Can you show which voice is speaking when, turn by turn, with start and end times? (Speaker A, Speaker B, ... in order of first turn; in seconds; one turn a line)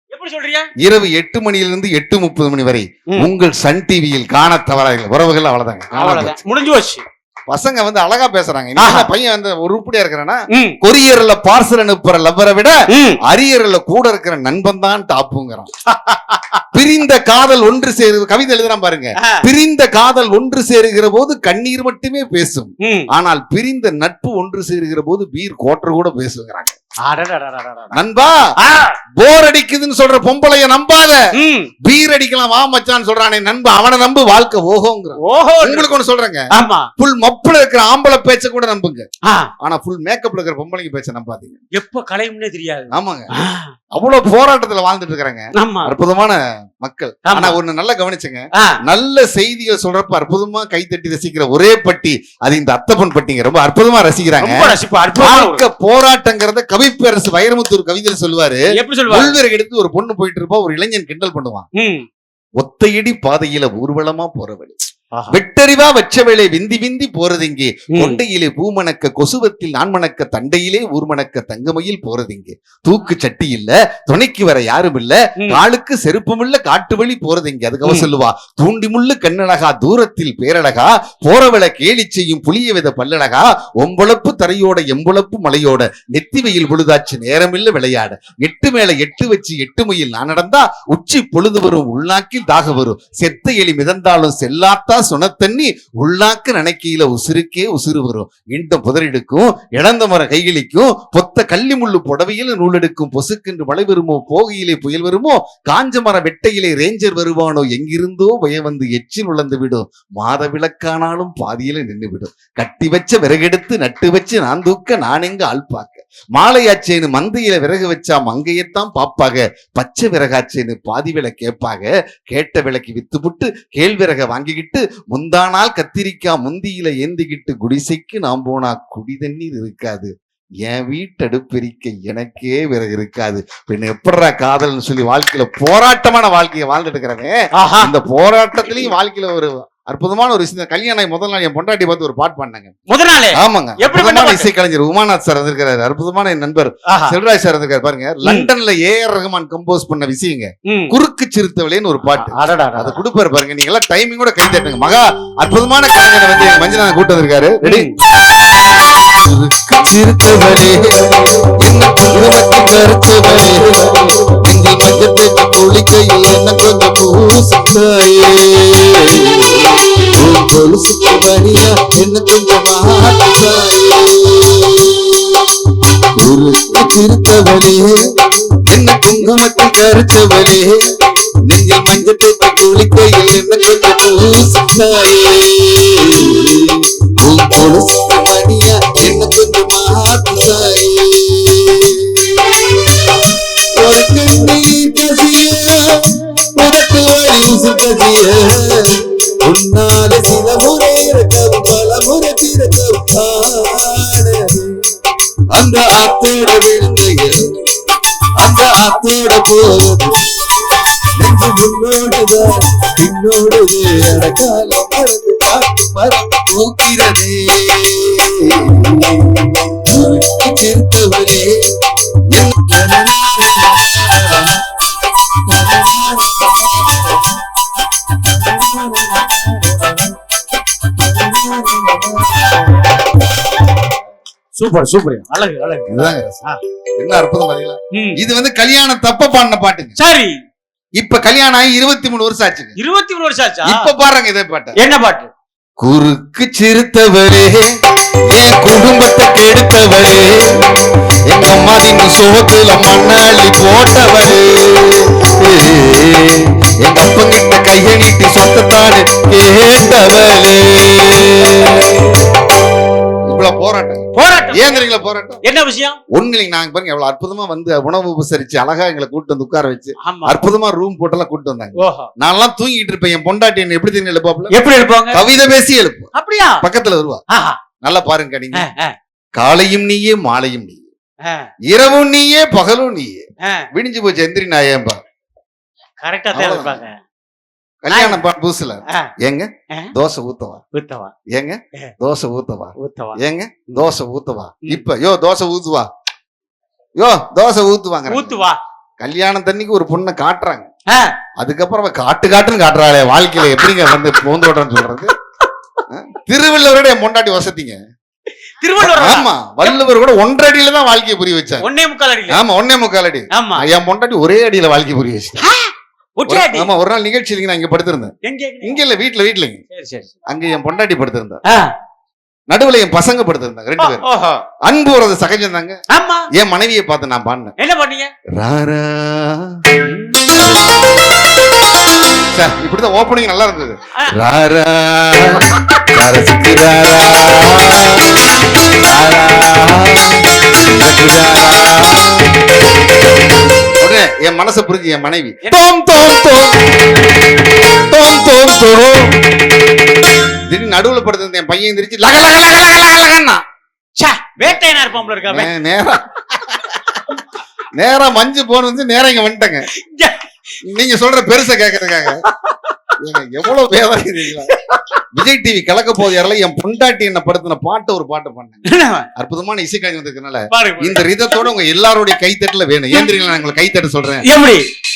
Speaker A: 0.1-0.7
Speaker B: 0.8-6.4
Speaker A: 5.9-7.0
Speaker B: 7.5-15.7
Speaker A: 8.8-9.1
Speaker A: 10.5-10.8
Speaker A: 12.9-13.2
Speaker A: 15.9-16.6
Speaker B: 16.7-26.8
Speaker A: 22.8-23.1
Speaker A: 27.0-28.0
Speaker B: 27.9-28.4
Speaker A: 28.6-28.9
Speaker B: 29.2-31.2
Speaker A: 31.3-31.7
Speaker B: 31.8-36.5
Speaker A: 35.2-35.9
Speaker A: 36.5-36.9
Speaker B: 37.0-39.0
Speaker A: 39.2-39.5
Speaker B: 39.6-41.6
Speaker A: 41.8-43.7
Speaker B: 42.9-43.3
Speaker B: 43.9-61.7
Speaker A: 45.5-45.9
Speaker A: 47.3-47.5
Speaker A: 54.4-55.6
Speaker A: 58.7-59.4
Speaker A: 61.8-62.0
Speaker B: 62.6-64.7
Speaker A: 65.1-65.4
Speaker B: 65.3-130.1
Speaker A: 67.9-68.2
Speaker B: 130.6-142.7
Speaker A: 137.6-137.9
Speaker A: 142.9-144.5
Speaker B: 143.3-178.0
Speaker A: 146.9-147.1
Speaker A: 148.2-148.5
Speaker A: 150.7-150.9
Speaker A: 152.1-153.0
Speaker A: 157.6-157.9
Speaker B: 178.7-180.8
Speaker B: 181.5-204.7
Speaker B: 205.5-207.5
Speaker B: 208.4-221.6
Speaker B: 222.3-227.2
Speaker B: 228.3-230.1
Speaker B: 231.0-232.7
Speaker A: 234.6-236.6
Speaker B: 235.9-236.4
Speaker B: 237.0-239.9
Speaker A: 237.9-238.2
Speaker A: 240.0-240.4
Speaker B: 241.0-242.8
Speaker A: 242.8-243.9
Speaker B: 243.6-244.8
Speaker A: 244.8-245.3
Speaker B: 245.8-247.7
Speaker B: 248.3-250.7
Speaker B: 251.3-262.3
Speaker B: 263.3-265.4
Speaker A: 264.1-264.8
Speaker A: 265.4-266.0
Speaker B: 266.1-274.5
Speaker A: 270.0-270.4
Speaker A: 271.8-272.1
Speaker A: 274.5-275.2
Speaker B: 275.1-277.2
Speaker A: 276.1-276.6
Speaker A: 277.3-277.6
Speaker B: 277.8-278.7
Speaker A: 278.5-278.9
Speaker B: 279.4-280.8
Speaker B: 281.7-283.2
Speaker B: 283.7-285.0
Speaker A: 286.0-287.0
Speaker B: 286.3-286.8
Speaker B: 287.8-290.6
Speaker A: 287.9-288.2
Speaker A: 290.7-291.1
Speaker B: 291.3-295.9
Speaker A: 292.8-293.2
Speaker B: 297.0-298.5
Speaker A: 298.1-298.6
Speaker B: 299.0-300.6
Speaker A: 300.9-301.2
Speaker B: 301.4-305.1
Speaker B: 305.9-307.8
Speaker A: 308.6-309.7
Speaker B: 308.8-311.6
Speaker A: 311.6-312.4
Speaker B: 312.3-315.4
Speaker A: 313.3-313.6
Speaker A: 315.4-316.7
Speaker B: 316.3-318.1
Speaker A: 318.2-318.8
Speaker B: 318.6-319.6
Speaker A: 319.7-320.1
Speaker B: 320.3-321.4
Speaker B: 322.5-324.0
Speaker A: 323.8-324.4
Speaker B: 324.6-325.8
Speaker A: 325.9-326.2
Speaker B: 326.4-327.5
Speaker A: 327.6-328.1
Speaker B: 328.4-329.6
Speaker A: 329.8-330.2
Speaker B: 330.3-330.8
Speaker B: 332.3-338.3
Speaker B: 338.8-342.3
Speaker B: 343.8-346.6
Speaker B: 347.9-349.2
Speaker B: 350.5-353.4
Speaker A: 354.0-355.5
Speaker B: 354.4-356.8
Speaker B: 357.7-359.7
Speaker A: 359.8-360.2
Speaker B: 360.7-362.2
Speaker A: 362.3-362.7
Speaker B: 363.0-364.5
Speaker A: 364.5-365.0
Speaker B: 365.1-368.6
Speaker A: 368.6-369.1
Speaker B: 369.1-374.2
Speaker A: 370.5-371.1
Speaker A: 374.2-374.6